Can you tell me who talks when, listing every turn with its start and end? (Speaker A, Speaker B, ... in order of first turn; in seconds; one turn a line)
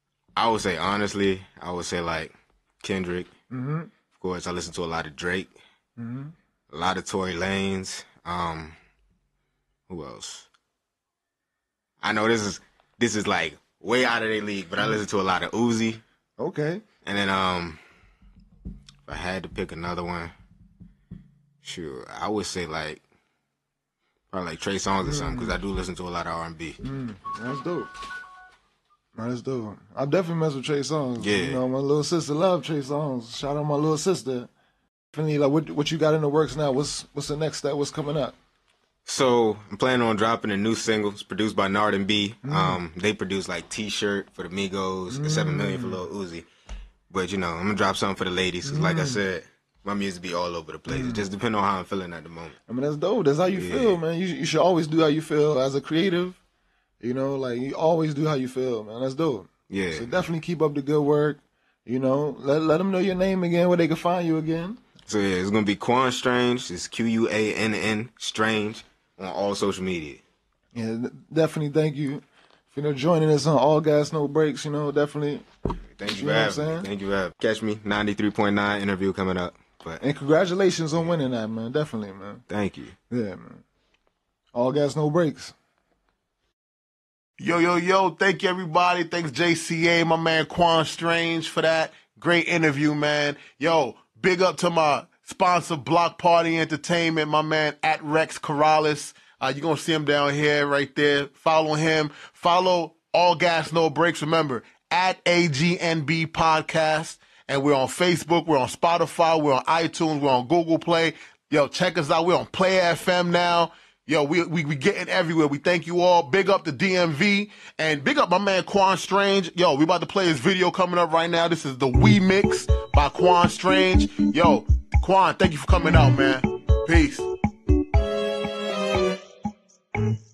Speaker A: 0.4-3.3
Speaker B: 3.5-3.9
Speaker A: 4.1-5.5
Speaker B: 6.0-6.3
Speaker A: 6.7-8.8
Speaker A: 9.9-10.5
Speaker A: 12.0-16.0
Speaker B: 16.4-16.8
Speaker A: 17.0-17.8
Speaker A: 19.1-20.3
Speaker A: 21.6-23.0
Speaker A: 24.3-26.8
Speaker B: 25.1-25.6
Speaker B: 26.8-27.9
Speaker B: 29.2-34.5
Speaker A: 31.2-31.6
Speaker B: 35.1-38.4
Speaker A: 39.1-46.5
Speaker B: 42.4-42.8
Speaker B: 45.1-46.0
Speaker A: 47.1-52.6
Speaker B: 48.6-49.2
Speaker B: 50.9-51.2
Speaker B: 52.7-56.4
Speaker A: 53.5-54.0
Speaker B: 57.0-64.8
Speaker A: 59.7-60.1
Speaker A: 65.1-70.2
Speaker B: 70.7-75.5
Speaker A: 76.0-80.0
Speaker B: 76.0-76.9
Speaker B: 80.0-82.4
Speaker A: 82.5-83.0
Speaker B: 83.1-83.6
Speaker B: 84.5-85.5
Speaker C: 87.4-127.3